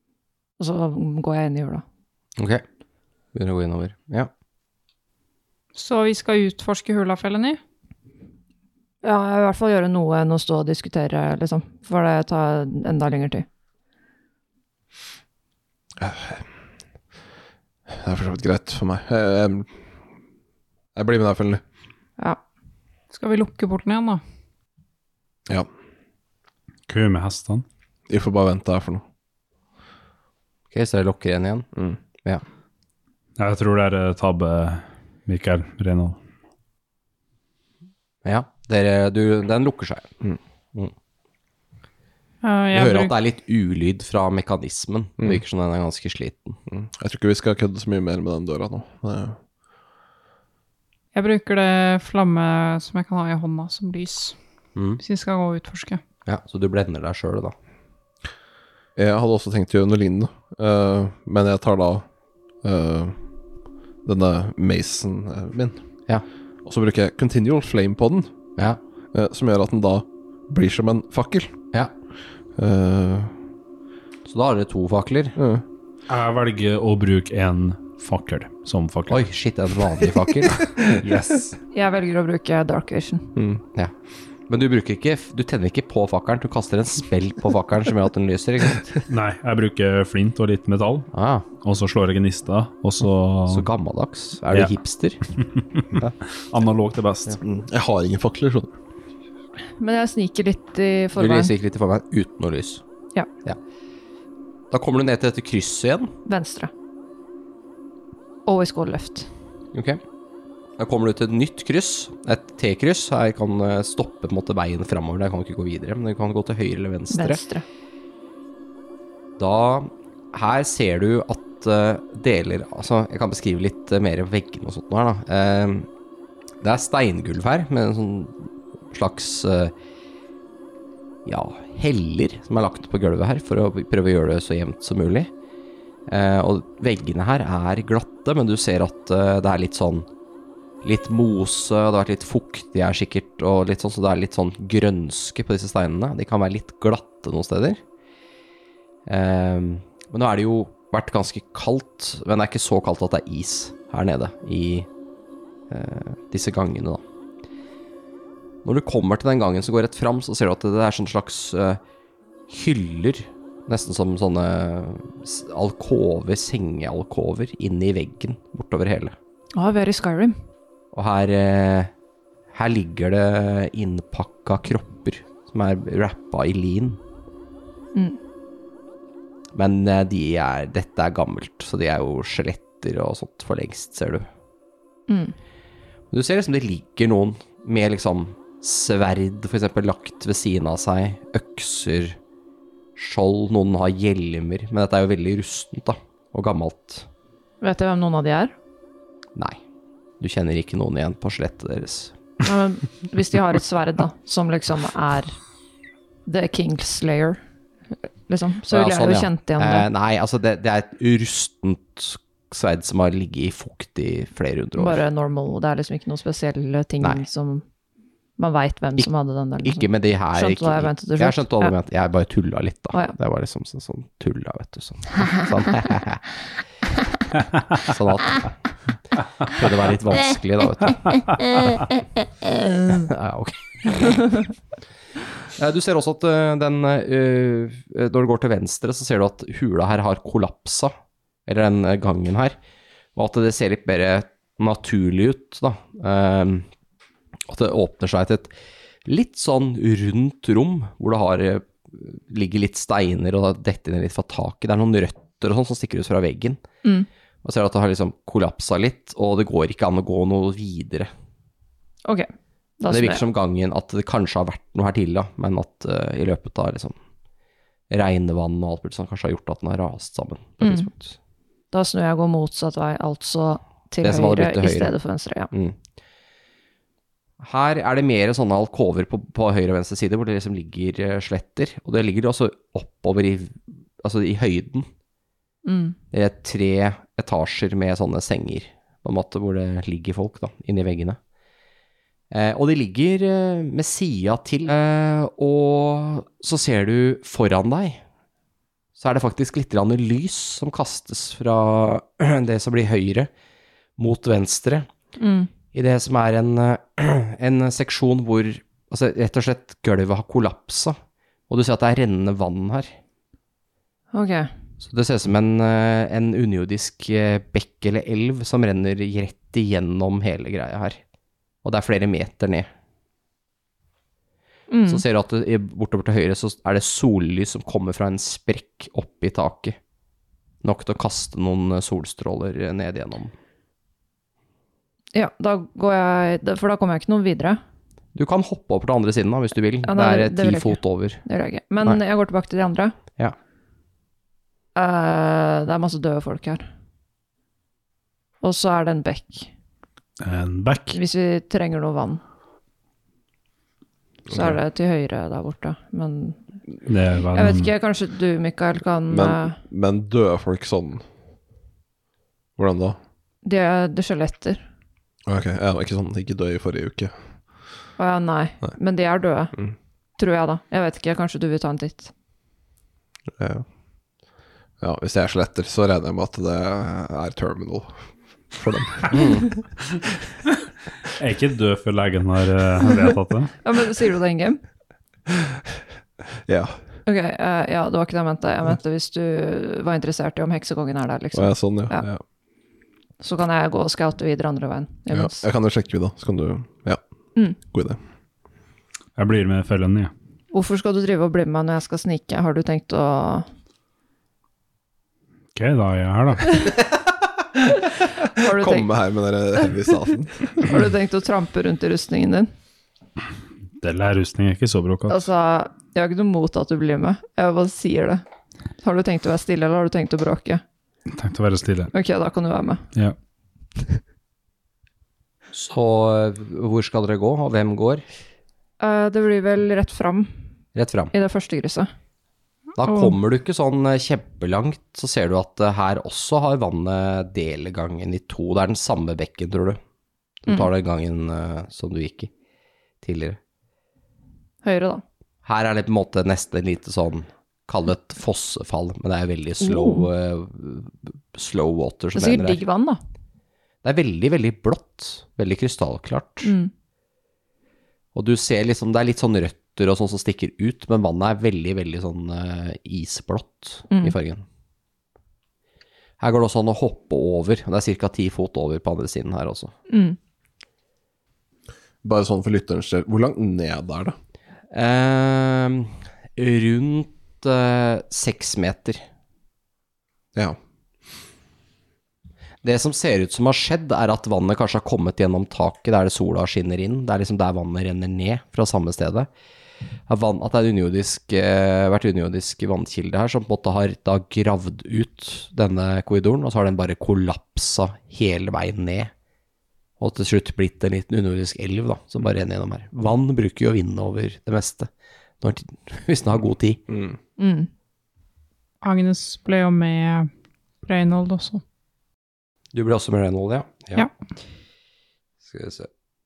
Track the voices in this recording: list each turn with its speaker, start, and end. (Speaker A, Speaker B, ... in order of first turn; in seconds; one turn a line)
Speaker A: 0.6-1.8
Speaker B: 2.4-2.6
Speaker B: 3.3-4.3
Speaker C: 5.7-7.6
Speaker A: 9.0-13.4
Speaker D: 16.0-16.4
Speaker D: 17.9-19.7
Speaker D: 20.9-21.6
Speaker C: 23.1-24.2
Speaker E: 26.9-27.6
Speaker D: 28.1-29.0
Speaker B: 30.7-31.7
Speaker E: 33.4-36.2
Speaker B: 38.2-40.1
Speaker C: 42.4-43.1
Speaker B: 42.7-46.6
Speaker D: 46.7-49.4
Speaker C: 51.1-54.3
Speaker C: 55.0-56.0
Speaker B: 56.2-57.5
Speaker D: 59.0-62.0
Speaker D: 62.6-63.1
Speaker D: 64.0-65.8
Speaker D: 66.6-68.3
Speaker D: 69.1-71.5
Speaker D: 72.5-73.3
Speaker B: 74.2-75.3
Speaker D: 75.3-75.6
Speaker E: 76.1-79.2
Speaker B: 79.1-80.7
Speaker E: 80.9-81.6
Speaker A: 81.7-83.3
Speaker D: 83.3-83.6
Speaker B: 84.5-88.9
Speaker E: 89.1-93.7
Speaker B: 91.1-91.5
Speaker B: 93.5-95.2
Speaker E: 96.4-97.4
Speaker D: 97.5-98.7
Speaker A: 99.8-101.5
Speaker B: 101.2-102.8
Speaker B: 104.7-106.1
Speaker A: 106.2-106.7
Speaker A: 108.5-109.3
Speaker B: 109.7-110.0
Speaker B: 110.8-117.4
Speaker A: 117.1-117.6
Speaker B: 119.4-125.9
Speaker B: 126.6-129.7
Speaker B: 131.2-135.3
Speaker B: 136.1-140.1
Speaker B: 140.8-147.8
Speaker B: 149.1-154.9
Speaker B: 155.7-157.0
Speaker B: 158.6-161.8
Speaker B: 162.5-169.1
Speaker A: 169.5-170.4
Speaker B: 170.9-171.9
Speaker B: 172.5-177.0
Speaker B: 179.5-184.3
Speaker A: 185.1-185.3
Speaker B: 186.1-192.2
Speaker B: 192.9-197.1
Speaker A: 197.6-198.5
Speaker B: 200.2-202.1
Speaker A: 202.4-205.4
Speaker A: 206.2-207.4
Speaker A: 208.3-209.9
Speaker B: 208.7-215.0
Speaker A: 214.8-217.6
Speaker A: 218.4-221.7
Speaker B: 219.6-226.2
Speaker B: 227.8-228.6
Speaker B: 229.5-231.3
Speaker B: 232.9-234.4
Speaker B: 235.6-240.9
Speaker B: 241.4-242.6
Speaker B: 243.1-246.7
Speaker B: 247.4-248.5
Speaker B: 249.0-256.6
Speaker B: 257.4-261.1
Speaker A: 262.0-263.2
Speaker B: 262.9-266.9
Speaker B: 267.9-271.1
Speaker A: 270.6-270.9
Speaker A: 271.7-275.5
Speaker B: 274.0-274.9
Speaker B: 277.4-284.9
Speaker A: 285.6-286.0
Speaker B: 286.1-291.2
Speaker B: 292.3-298.0
Speaker B: 299.0-303.3
Speaker B: 304.0-304.9
Speaker A: 305.2-305.5
Speaker B: 305.7-311.0
Speaker B: 311.5-312.9
Speaker A: 314.1-314.5
Speaker B: 314.8-321.0
Speaker B: 321.6-322.7
Speaker A: 324.7-325.0
Speaker B: 324.9-329.8
Speaker B: 330.6-333.3
Speaker A: 335.1-337.6
Speaker B: 338.1-341.2
Speaker A: 339.8-342.9
Speaker A: 344.7-346.6
Speaker A: 348.4-349.5
Speaker E: 350.2-351.0
Speaker A: 350.9-352.2
Speaker D: 354.3-354.6
Speaker A: 354.3-356.4
Speaker E: 356.8-357.7
Speaker A: 357.3-359.6
Speaker D: 359.1-361.0
Speaker D: 362.6-363.0
Speaker A: 363.4-364.6
Speaker D: 365.2-367.1
Speaker A: 368.0-369.6
Speaker A: 370.2-372.1
Speaker D: 373.4-373.6
Speaker D: 374.8-379.2
Speaker B: 379.1-379.4
Speaker E: 381.2-383.5
Speaker A: 383.6-384.6
Speaker D: 385.3-385.6
Speaker D: 386.4-386.8
Speaker A: 387.1-392.0
Speaker D: 391.3-392.2
Speaker A: 393.2-395.4
Speaker D: 395.1-397.0
Speaker D: 397.6-398.0
Speaker E: 399.1-400.1
Speaker A: 400.5-403.4
Speaker E: 405.5-406.7
Speaker D: 408.2-410.8
Speaker A: 408.3-408.9
Speaker A: 410.6-412.5
Speaker E: 413.8-415.3
Speaker A: 415.1-418.2
Speaker A: 418.8-420.6
Speaker E: 421.1-421.9
Speaker A: 421.9-422.9
Speaker B: 425.5-428.0
Speaker A: 428.8-430.3
Speaker B: 430.7-431.1
Speaker A: 431.1-431.9
Speaker B: 432.8-439.8
Speaker B: 440.4-442.3
Speaker B: 443.0-443.4
Speaker A: 444.6-445.0
Speaker B: 445.4-452.6
Speaker A: 449.6-450.1
Speaker A: 452.1-453.0
Speaker B: 453.8-456.5
Speaker A: 456.4-456.7
Speaker B: 458.1-464.4
Speaker B: 466.2-469.7
Speaker A: 469.9-470.2
Speaker D: 472.0-474.1
Speaker B: 474.7-479.0
Speaker B: 482.6-489.3
Speaker B: 490.1-499.1
Speaker B: 500.0-504.9
Speaker B: 505.4-506.8
Speaker D: 506.9-507.1
Speaker A: 507.4-507.7
Speaker C: 508.8-510.3
Speaker C: 510.8-511.6
Speaker B: 512.7-514.1
Speaker B: 515.5-515.9